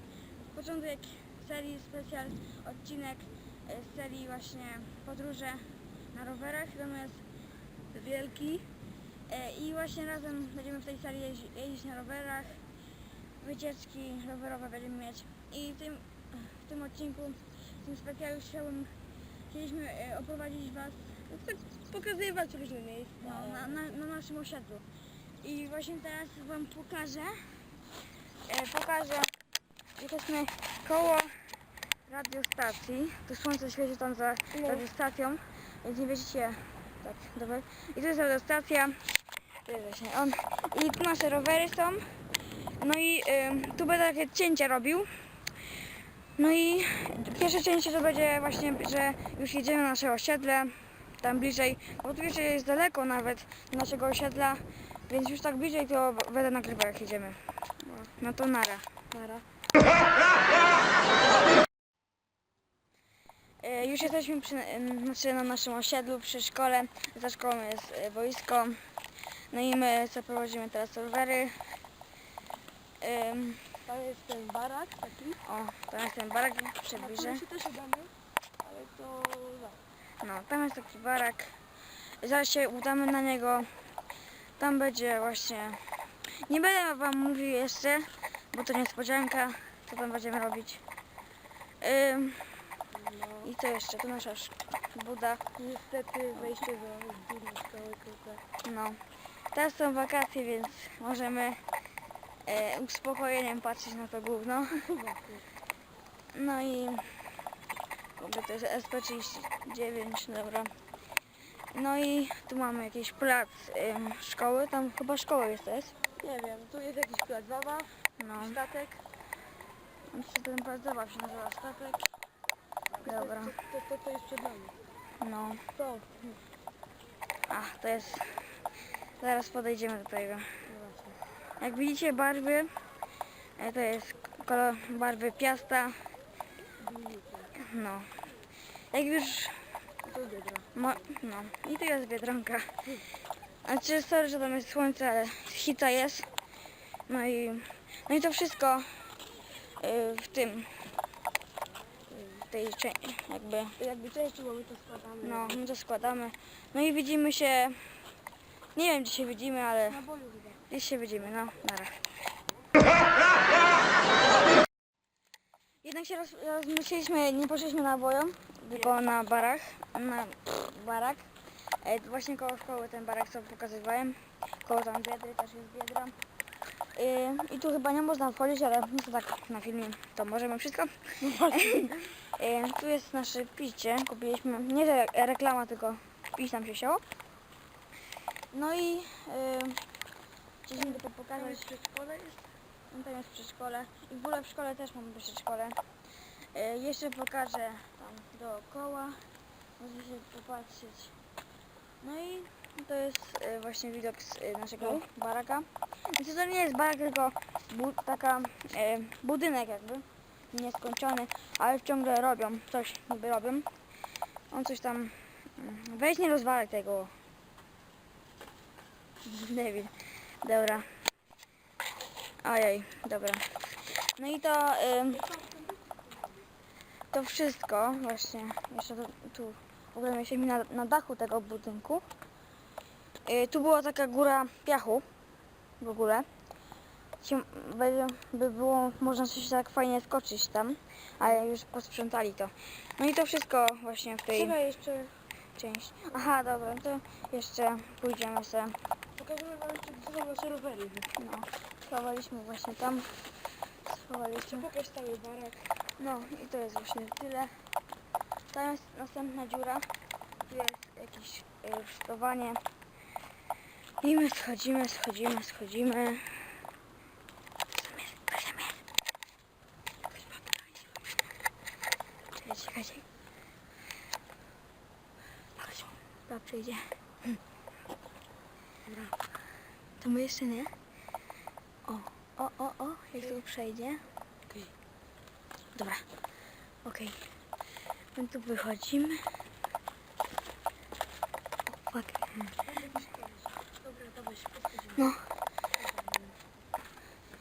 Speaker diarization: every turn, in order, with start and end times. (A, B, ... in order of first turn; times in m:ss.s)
0:00.5-0:07.2 A
0:07.9-0:08.7 B
0:09.3-0:12.6 A
0:13.4-0:18.9 A
0:19.5-0:21.3 A
0:21.3-0:24.0 B
0:23.2-0:24.9 A
0:25.4-0:27.6 A
0:28.4-0:29.3 A
0:30.0-0:31.4 A
0:32.0-0:39.0 A
0:34.5-0:34.8 B
0:39.6-0:42.0 A
0:42.8-0:45.1 A
0:46.4-0:57.4 A
0:58.1-0:59.0 A
0:59.1-0:59.4 B
1:03.6-1:08.8 A
1:09.5-1:11.8 A
1:13.0-1:13.8 A
1:13.8-1:15.4 B
1:15.4-1:17.4 A
1:16.9-1:18.1 B
1:18.6-1:19.8 B
1:20.2-1:21.6 A
1:22.2-1:23.7 A
1:24.6-1:30.8 A
1:31.8-1:32.8 A
1:32.9-1:33.5 B
1:33.4-1:35.4 A
1:35.6-1:38.4 B
1:38.6-1:41.6 A
1:42.4-1:44.8 A
1:44.8-1:45.4 B
1:46.3-1:47.3 A
1:48.2-1:50.7 A
1:51.7-1:56.0 A
1:56.2-1:59.0 B
1:58.2-1:58.6 A
2:00.1-2:02.0 A
2:03.0-2:04.8 B
2:03.0-2:03.5 A
2:05.2-2:05.6 A
2:05.7-2:06.2 B
2:07.5-2:08.5 A
2:09.2-2:10.5 A
2:10.6-2:11.2 B
2:11.6-2:12.7 A
2:13.6-2:16.1 A
2:16.8-2:17.5 B
2:17.5-2:18.2 A
2:18.9-2:19.7 A
2:20.0-2:20.7 B
2:20.7-2:22.7 A
2:23.6-2:26.3 A
2:27.1-2:29.2 A
2:29.8-2:30.7 A
2:32.1-2:33.8 A
2:33.8-2:35.6 B
2:35.2-2:37.8 A
2:38.7-2:40.0 A
2:39.9-2:40.6 B
2:40.7-2:42.1 A
2:45.8-2:51.3 A
2:51.8-2:56.1 A
2:56.9-3:07.0 A
3:01.2-3:02.0 B
3:08.5-3:09.8 A
3:10.6-3:11.8 A
3:10.8-3:12.4 B
3:12.9-3:15.8 A
3:16.5-3:19.2 A
3:19.8-3:21.1 A
3:22.0-3:33.7 A
3:34.5-3:37.1 A
3:39.2-3:40.9 A
3:42.4-3:45.4 A
3:47.1-3:52.0 A
3:53.2-3:55.0 A
3:55.8-3:56.2 A
3:57.2-4:04.6 A
4:04.3-4:05.1 B
4:05.6-4:08.7 A
4:09.2-4:11.1 B
4:11.1-4:13.1 A
4:13.8-4:14.6 A
4:14.4-4:15.7 B
4:16.0-4:17.5 A
4:18.5-4:19.9 A
4:20.5-4:22.6 A
4:24.0-4:26.6 A
4:27.7-4:28.8 A
4:30.1-4:31.1 A
4:32.3-4:33.0 A
4:35.6-4:37.4 A
4:38.8-4:39.1 B
4:40.0-4:40.7 A
4:41.8-4:44.0 A
4:45.7-4:46.0 A
4:46.8-4:47.2 A
4:48.1-4:49.2 A
4:51.7-4:52.5 A
4:52.7-4:55.1 B
4:54.9-4:55.2 A
4:55.8-4:56.4 B